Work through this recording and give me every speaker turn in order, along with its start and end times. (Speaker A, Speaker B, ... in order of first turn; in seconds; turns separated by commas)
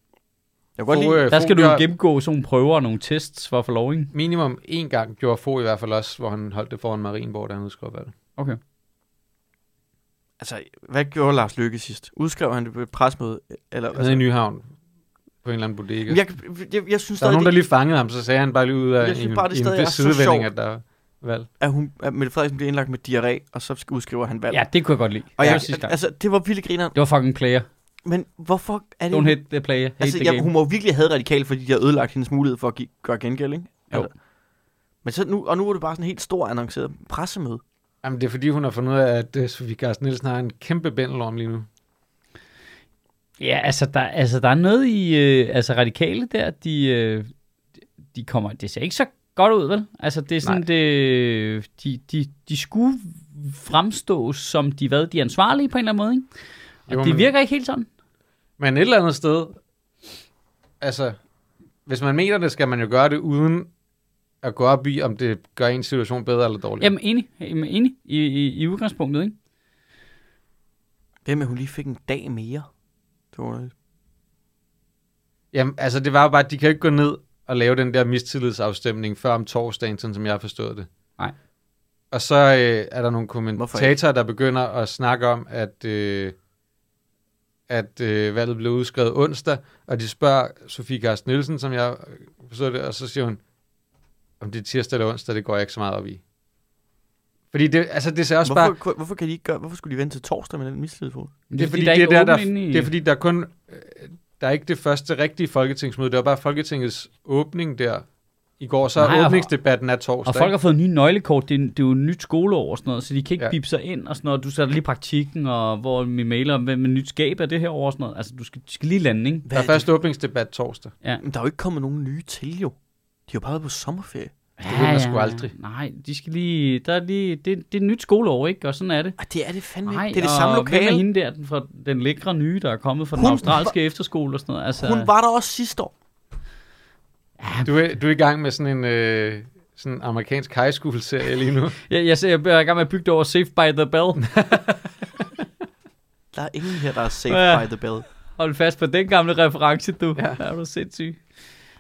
Speaker A: 0.8-1.2, Speaker B: 0.9-1.9, Speaker C: 1.3-4.1, Speaker B: 4.1-8.1, Speaker A: 10.4-14.2, Speaker B: 13.9-14.7, Speaker B: 15.4-16.2, Speaker A: 16.1-17.6, Speaker B: 17.2-21.5, Speaker A: 19.0-20.5, Speaker A: 21.6-24.7, Speaker C: 24.5-26.0, Speaker A: 25.4-26.9, Speaker C: 26.9-27.7, Speaker A: 28.0-29.5, Speaker C: 29.1-30.5, Speaker A: 30.0-34.1, Speaker A: 35.0-37.6, Speaker B: 38.0-41.7, Speaker C: 43.4-47.3, Speaker C: 48.1-56.3, Speaker C: 56.9-57.9, Speaker B: 56.9-57.3, Speaker B: 58.6-59.6, Speaker B: 60.8-61.1, Speaker B: 61.9-63.7, Speaker B: 64.4-66.9, Speaker C: 66.8-69.3, Speaker A: 71.2-72.7, Speaker A: 73.3-73.7, Speaker B: 75.5-80.9, Speaker B: 82.1-86.3, Speaker A: 83.6-83.9, Speaker B: 87.7-93.4, Speaker B: 94.4-96.2, Speaker B: 97.5-98.7, Speaker A: 98.4-101.3, Speaker C: 101.5-102.9, Speaker B: 101.6-108.0, Speaker B: 108.6-110.5, Speaker C: 109.0-109.5, Speaker C: 110.2-119.4, Speaker A: 119.5-119.8, Speaker B: 119.5-120.9, Speaker A: 121.2-122.7, Speaker A: 123.3-124.3, Speaker C: 124.6-129.2, Speaker B: 124.7-125.5, Speaker A: 129.2-131.0, Speaker C: 129.8-135.1, Speaker A: 133.2-133.7, Speaker A: 134.8-135.9, Speaker C: 137.4-137.7, Speaker B: 137.6-141.8, Speaker C: 141.9-144.2, Speaker B: 144.2-144.8, Speaker A: 146.3-148.0, Speaker C: 147.3-147.6, Speaker C: 148.3-151.2